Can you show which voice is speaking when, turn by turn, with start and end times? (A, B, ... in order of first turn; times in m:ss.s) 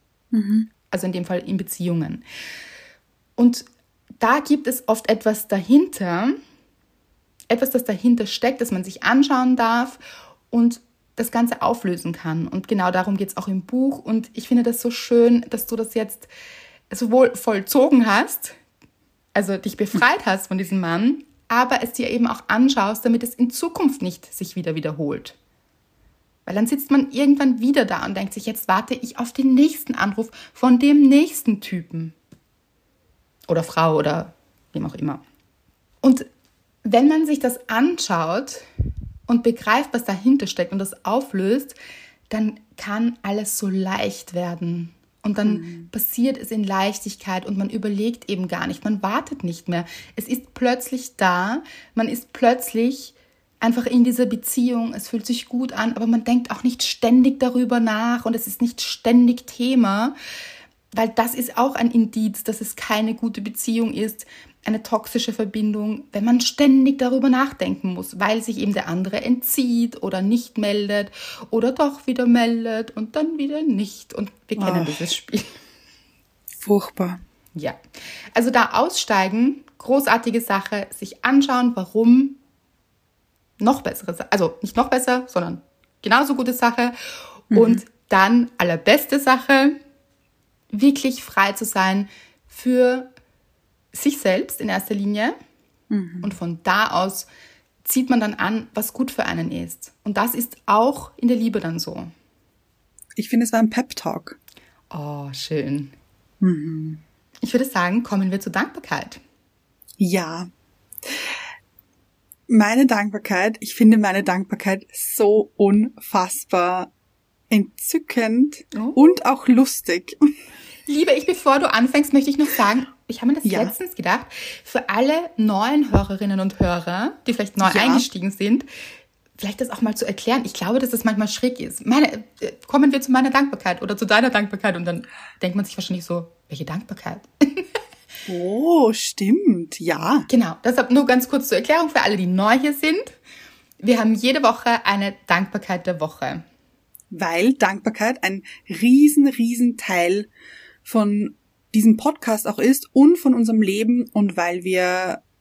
0:00.3-0:00.7 A
0:00.9-0:02.2 B
0:03.4-0:03.7 B
0:04.2-0:06.4 B
0:07.5-0:10.0 B
0:10.5-0:16.3 B
0:16.9-0:18.6 B
0:19.4-0:25.4 B
0:26.5-0:32.2 B
0:33.5-0:35.2 B
0:36.8-0:38.7 B
0:39.3-0:41.8 B
0:42.3-1:00.2 B
0:45.4-0:45.9 A
1:00.9-1:15.5 B
1:14.6-1:15.1 A
1:16.6-1:17.2 A
1:18.3-1:22.4 B
1:23.6-1:27.0 B
1:27.5-1:29.8 B
1:27.5-1:27.8 A
1:30.7-1:33.1 B
1:33.9-1:35.4 B
1:35.9-1:36.3 A
1:36.2-1:37.3 B
1:37.8-1:42.1 B
1:43.2-1:44.4 A
1:44.9-1:46.0 B
1:46.4-1:47.0 A
1:47.4-1:49.2 B
1:50.0-1:50.5 A
1:52.5-1:56.9 A
1:57.5-2:00.2 A
1:58.7-1:59.0 B
2:00.9-2:08.7 B
2:03.4-2:03.8 A
2:07.6-2:08.0 A
2:09.4-2:17.7 B
2:18.3-2:20.3 A
2:20.3-2:23.2 B
2:23.8-2:26.4 B
2:27.1-2:30.3 A
2:30.8-2:35.2 A